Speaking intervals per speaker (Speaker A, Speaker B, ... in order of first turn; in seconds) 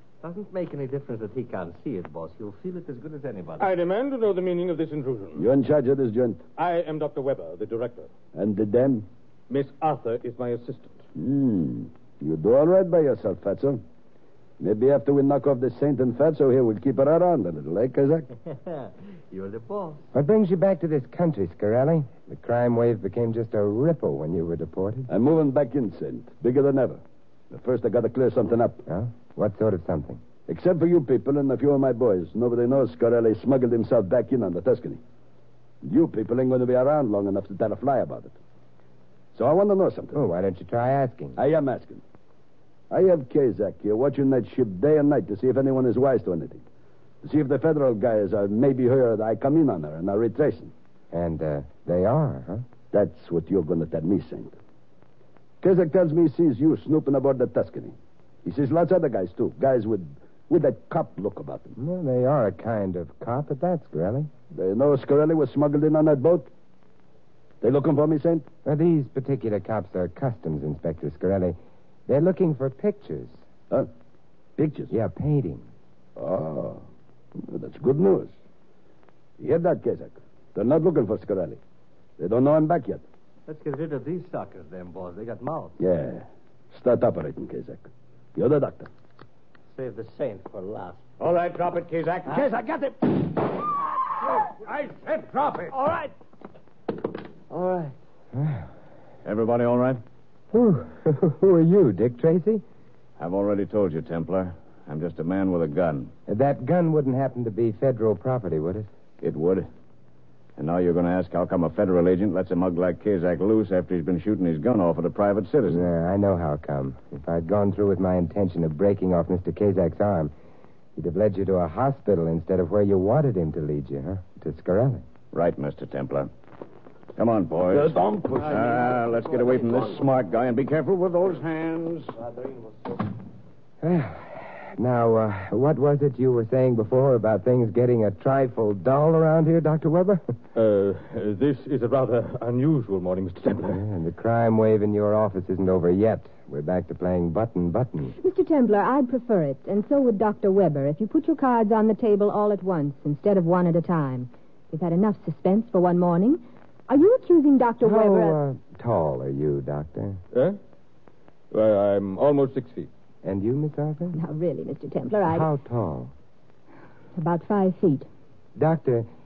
Speaker A: 0.2-3.7, 18.5-20.1, 83.5-85.8, 89.7-91.0, 92.3-93.2, 94.2-94.9, 95.7-96.1, 97.5-97.9
Speaker B: 3.6-5.4, 6.6-8.1, 9.5-11.0, 140.6-143.8, 161.5-162.9
Speaker C: 5.4-6.4, 8.3-9.1, 11.2-13.8, 14.6-18.3, 25.1-28.8, 30.5-35.0, 35.8-38.4, 39.3-40.2, 41.4-42.0, 42.9-46.6, 47.2-50.7, 52.9-54.5, 55.6-61.7, 64.5-66.5, 67.6-68.5, 74.6-74.9, 76.2-76.8, 77.4-78.3, 79.4-81.6, 82.2-83.0, 85.8-88.9, 127.7-129.1
Speaker D: 20.1-25.1, 28.9-30.2, 40.1-41.4, 51.1-52.6, 61.8-64.3, 68.7-71.6, 72.1-73.4, 74.9-75.7, 98.3-98.7, 100.5-102.6, 106.3-108.9, 115.7-120.3, 121.0-125.0, 133.8-140.2, 143.7-148.2, 157.8-160.2, 163.2-164.2, 165.2-166.1, 168.6-169.1
Speaker E: 91.2-92.7, 94.8-95.7, 99.2-100.0, 103.2-106.1, 109.2-109.7, 110.6-115.9, 125.3-126.3, 127.2-132.2
Speaker F: 148.2-158.4, 164.1-165.5, 167.2-168.1